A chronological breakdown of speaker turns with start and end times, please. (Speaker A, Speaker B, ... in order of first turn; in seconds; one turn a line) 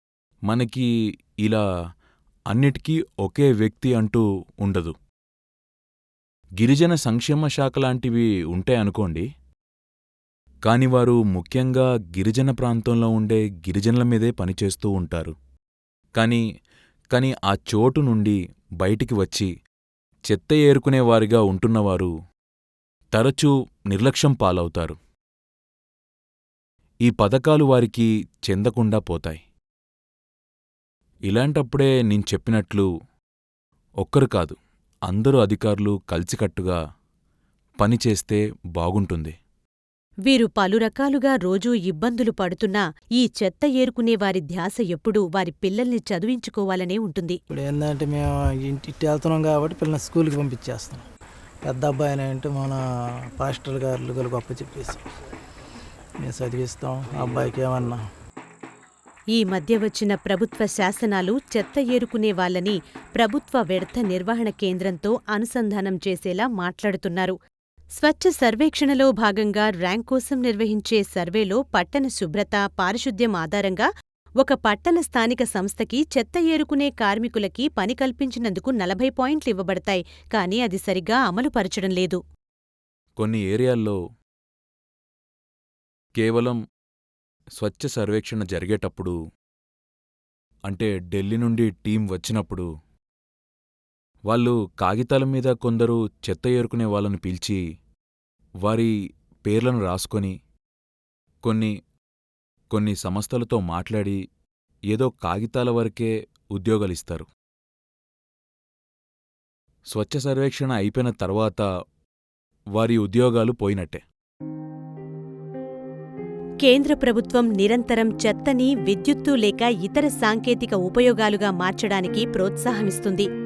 Speaker A: 0.5-0.9
Speaker A: 2.5-4.9
Speaker A: 6.6-9.3
Speaker A: 10.7-15.3
Speaker A: 16.2-16.4
Speaker A: 17.1-19.5
Speaker A: 20.3-22.1
Speaker A: 23.1-25.0
Speaker A: 27.1-29.4
Speaker A: 31.3-32.9
Speaker A: 34.0-34.6
Speaker A: 35.1-36.8
Speaker A: 37.8-39.4
Speaker B: 40.3-47.4
Speaker C: 47.5-51.0
Speaker C: 51.7-52.8
Speaker C: 53.4-55.0
Speaker C: 56.2-58.0
Speaker B: 59.3-67.4
Speaker B: 68.0-73.9
Speaker B: 74.4-82.2
Speaker A: 83.2-84.0
Speaker A: 86.2-86.6
Speaker A: 87.6-89.2
Speaker A: 90.7-92.7
Speaker A: 94.3-97.6
Speaker A: 98.6-98.9
Speaker A: 99.5-100.3
Speaker A: 101.4-101.7
Speaker A: 102.7-104.2
Speaker A: 104.9-107.3
Speaker A: 109.9-111.6
Speaker A: 112.8-114.0
Speaker B: 116.6-123.3